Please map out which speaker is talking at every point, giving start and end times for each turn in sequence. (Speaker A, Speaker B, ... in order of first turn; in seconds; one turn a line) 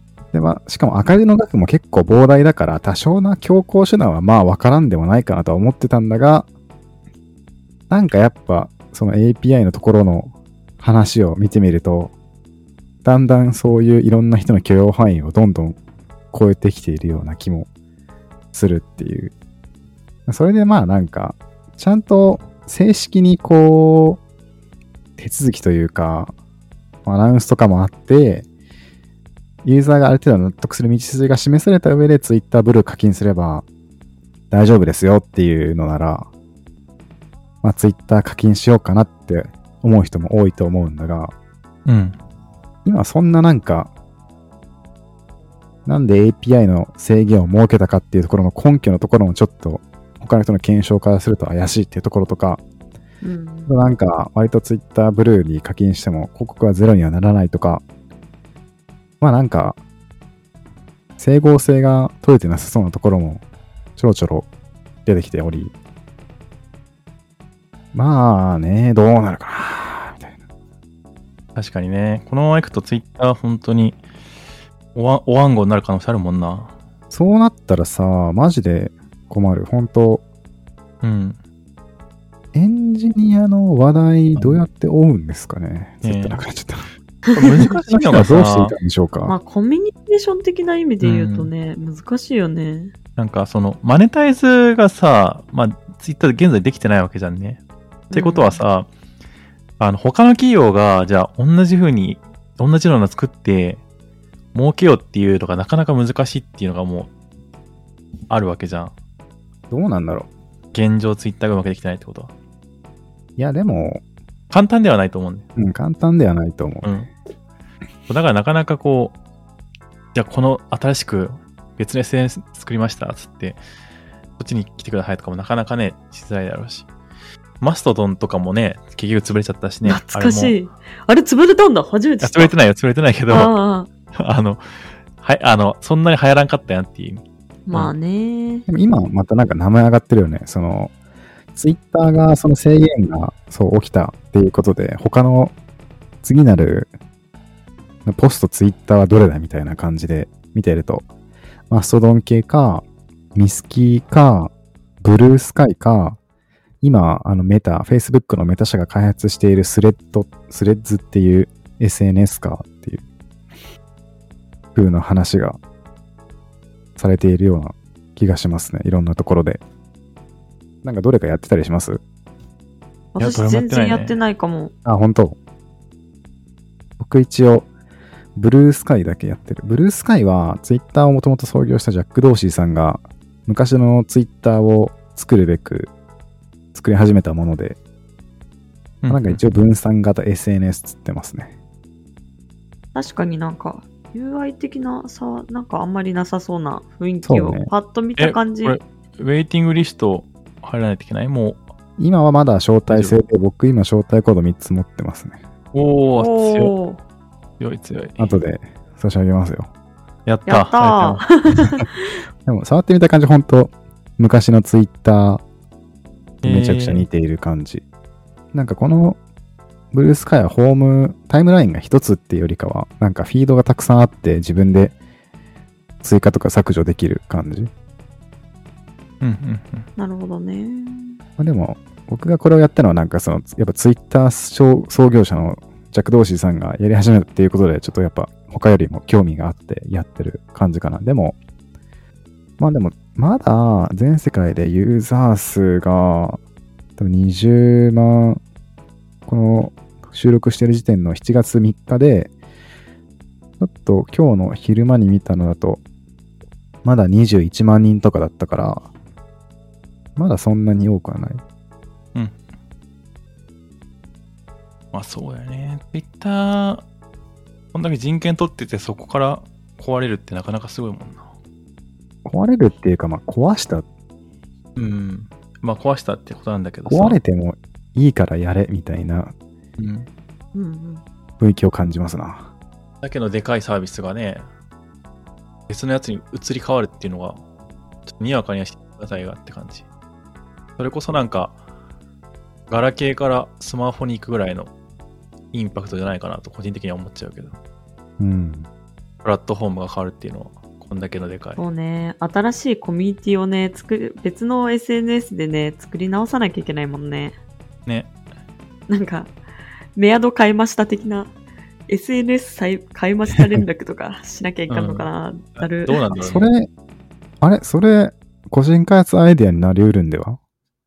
Speaker A: 0.3-6.5
Speaker A: 7.9-12.1
Speaker A: 13.0-15.8
Speaker A: 16.3-17.7
Speaker A: 18.5-19.3
Speaker A: 20.3-24.2
Speaker A: 25.2-26.3
Speaker A: 27.1-28.5
Speaker A: 29.6-33.7
Speaker A: 34.5-36.3
Speaker A: 37.6-41.3
Speaker B: 41.9-42.2
Speaker A: 42.9-43.9
Speaker A: 45.9-52.6
Speaker C: 53.2-53.7
Speaker A: 53.7-57.8
Speaker A: 59.2-59.8
Speaker A: 61.2-63.4
Speaker A: 64.0-64.5
Speaker A: 65.1-65.7
Speaker A: 67.9-70.3
Speaker B: 71.6-74.0
Speaker B: 75.0-76.7
Speaker A: 77.1-80.2
Speaker B: 81.0-81.4
Speaker A: 82.5-86.9
Speaker B: 86.0-86.4
Speaker B: 87.3-88.8
Speaker A: 87.5-89.4
Speaker C: 89.3-92.9
Speaker B: 91.0-91.5
Speaker B: 93.2-98.9
Speaker C: 98.1-98.6
Speaker B: 99.8-103.8
Speaker B: 104.5-107.1
Speaker B: 108.3-108.9
Speaker A: 109.7-110.3
Speaker B: 110.7-112.3
Speaker A: 113.4-114.0
Speaker B: 114.5-115.5
Speaker A: 115.6-116.9
Speaker B: 116.8-117.1
Speaker B: 118.1-119.2
Speaker B: 120.1-123.6
Speaker B: 124.4-126.9
Speaker B: 127.6-130.6
Speaker C: 129.9-132.5
Speaker B: 132.2-133.5
Speaker C: 133.3-133.9
Speaker B: 134.2-134.6
Speaker B: 135.2-137.9
Speaker C: 137.7-138.7
Speaker A: 138.7-140.9
Speaker A: 141.6-145.5
Speaker A: 146.2-146.9
Speaker A: 148.1-151.1
Speaker A: 151.7-156.2
Speaker A: 156.8-163.0
Speaker A: 164.8-165.6
Speaker A: 167.0-169.6
Speaker A: 170.8-172.0
Speaker C: 173.2-174.7
Speaker B: 173.2-174.2
Speaker A: 174.8-175.4
Speaker A: 177.0-177.7
Speaker A: 178.4-185.9
Speaker A: 186.7-187.8
Speaker B: 189.0-189.5
Speaker A: 189.1-191.5
Speaker C: 192.9-198.8
Speaker A: 197.2-197.7
Speaker B: 198.2-201.6
Speaker A: 202.0-205.4
Speaker B: 202.9-203.2
Speaker B: 205.7-206.7
Speaker C: 206.2-207.0
Speaker B: 207.6-208.3
Speaker A: 208.2-209.7
Speaker B: 210.3-211.2
Speaker C: 210.5-211.8
Speaker A: 212.4-215.4
Speaker B: 216.4-217.1
Speaker A: 216.4-217.8
Speaker A: 218.5-219.2
Speaker A: 219.9-225.0
Speaker A: 226.0-227.7
Speaker B: 229.2-229.9
Speaker C: 230.0-231.2
Speaker A: 231.4-241.4
Speaker A: 242.6-246.4
Speaker A: 247.0-248.4
Speaker A: 249.3-252.3
Speaker A: 253.6-255.8
Speaker A: 256.8-258.9
Speaker A: 260.2-261.4
Speaker B: 264.9-266.9
Speaker B: 267.7-271.3
Speaker A: 272.2-273.9
Speaker B: 274.8-277.2
Speaker A: 276.9-279.3
Speaker B: 279.8-280.1
Speaker C: 280.5-281.0
Speaker A: 281.4-282.5
Speaker B: 283.0-284.5
Speaker B: 285.7-287.4
Speaker B: 288.1-289.9
Speaker B: 290.8-291.6
Speaker B: 292.7-294.7
Speaker B: 295.5-297.6
Speaker A: 298.2-298.7
Speaker B: 299.2-301.6
Speaker C: 301.6-307.4
Speaker C: 308.9-309.3
Speaker C: 310.0-311.3
Speaker C: 311.9-316.0
Speaker B: 314.7-316.5
Speaker A: 316.2-316.7
Speaker A: 317.4-320.4